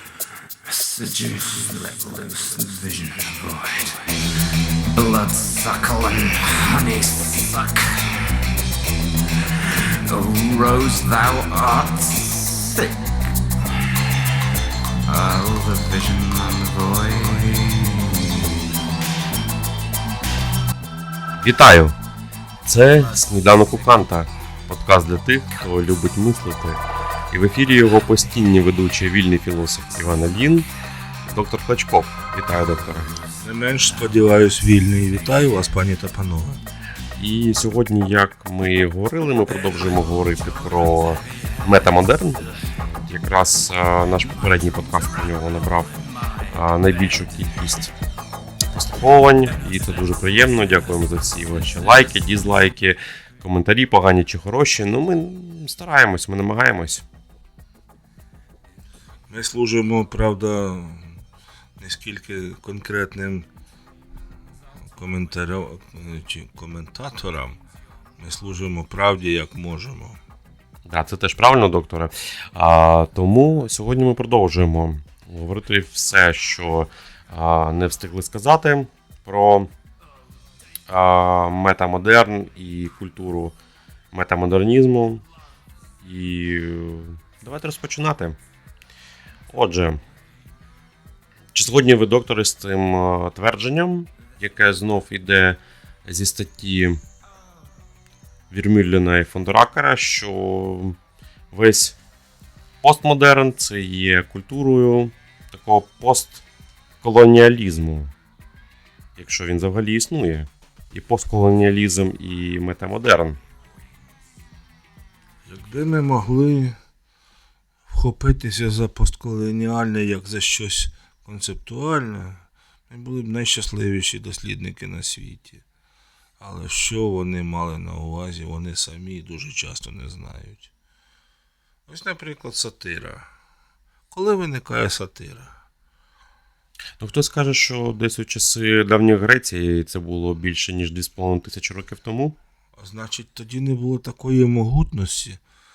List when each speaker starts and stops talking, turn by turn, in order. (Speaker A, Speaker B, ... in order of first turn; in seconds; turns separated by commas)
Speaker A: 0.7-4.2, Speaker A: 4.9-8.3, Speaker A: 10.1-13.2, Speaker A: 15.1-18.8, Speaker B: 21.4-22.0, Speaker B: 22.6-30.7, Speaker B: 31.3-33.2, Speaker C: 33.4-36.6, Speaker B: 37.2-47.9, Speaker B: 48.8-57.0, Speaker C: 59.3-61.2, Speaker C: 61.8-63.5, Speaker C: 64.9-67.6, Speaker C: 68.2-70.2, Speaker B: 70.9-79.7, Speaker B: 80.9-83.6, Speaker B: 84.1-85.2, Speaker B: 86.0-88.4, Speaker B: 89.5-90.0, Speaker B: 91.5-97.0, Speaker B: 98.5-101.0, Speaker B: 101.5-102.0, Speaker B: 102.8-106.5, Speaker B: 107.0-108.1, Speaker B: 109.2-113.4, Speaker C: 115.5-116.8, Speaker C: 117.9-125.6, Speaker C: 126.4-130.7, Speaker C: 131.9-133.3, Speaker C: 134.1-135.5, Speaker B: 137.0-142.4, Speaker C: 142.8-145.4